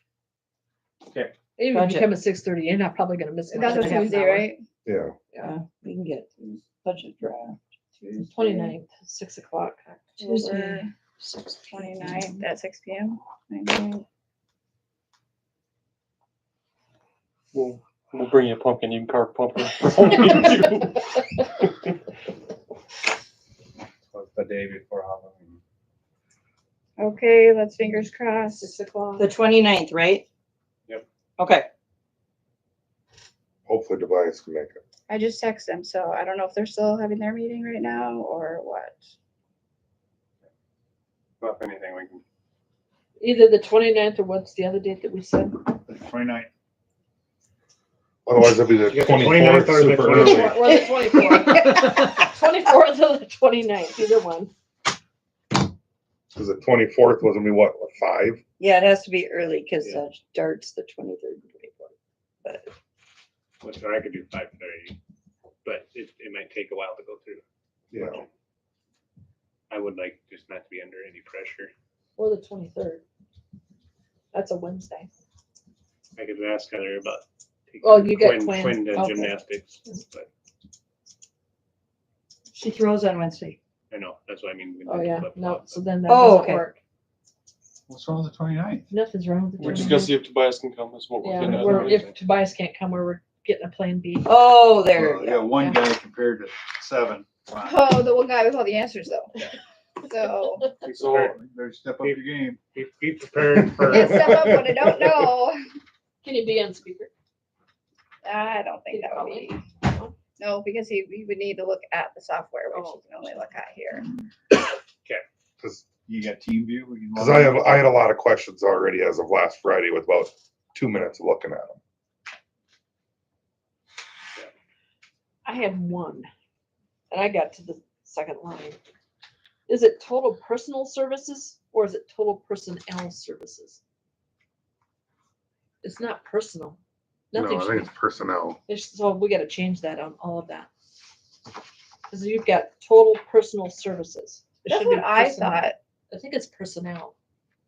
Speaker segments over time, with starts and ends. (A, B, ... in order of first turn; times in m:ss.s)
0:01.6-0:04.5 A
0:01.7-0:02.1 B
0:03.5-0:04.6 C
0:04.8-0:05.1 D
0:05.4-0:07.6 B
0:08.0-0:08.7 C
0:08.2-0:10.5 A
0:10.2-0:10.9 C
0:10.3-0:12.1 B
0:11.7-0:14.0 C
0:17.5-0:21.9 E
0:24.1-0:25.6 F
0:27.0-0:28.7 C
0:28.5-0:29.3 A
0:29.2-0:30.2 B
0:31.4-0:31.7 B
0:33.6-0:34.8 D
0:35.1-0:39.1 C
0:41.4-0:42.2 F
0:43.2-0:45.7 A
0:45.9-0:46.5 G
0:48.2-0:50.6 D
0:48.9-0:50.7 F
0:50.1-0:54.5 A
0:50.7-0:51.3 B
0:56.3-0:58.4 D
0:58.6-1:01.9 B
1:02.4-1:02.7 B
1:03.6-1:05.0 F
1:05.6-1:08.3 F
1:07.9-1:08.2 D
1:09.7-1:11.7 F
1:12.2-1:13.0 A
1:14.3-1:15.1 A
1:16.2-1:20.3 F
1:17.8-1:19.4 A
1:22.5-1:23.6 B
1:23.9-1:25.8 F
1:24.8-1:26.8 A
1:26.1-1:26.6 B
1:27.9-1:28.9 G
1:28.9-1:30.1 A
1:29.6-1:32.0 E
1:31.2-1:34.3 A
1:31.4-1:32.1 F
1:34.2-1:35.5 B
1:34.9-1:37.8 G
1:35.5-1:35.8 A
1:37.6-1:39.3 C
1:40.0-1:40.7 C
1:40.8-1:41.3 F
1:40.8-1:41.3 E
1:41.3-1:42.6 G
1:42.7-1:44.4 F
1:43.8-1:45.6 C
1:43.9-1:45.2 D
1:46.2-1:47.1 A
1:48.2-1:49.6 C
1:48.9-1:50.1 A
1:50.4-1:54.1 C
1:52.7-1:53.5 A
1:55.6-1:55.9 D
1:56.1-1:57.9 G
1:57.1-2:01.8 D
2:05.4-2:06.3 A
2:07.1-2:08.8 A
2:09.7-2:13.8 A
2:15.8-2:16.8 A
2:17.3-2:17.9 A
2:17.3-2:18.6 D
2:18.7-2:20.7 A
2:22.1-2:27.1 A
2:24.6-2:25.8 C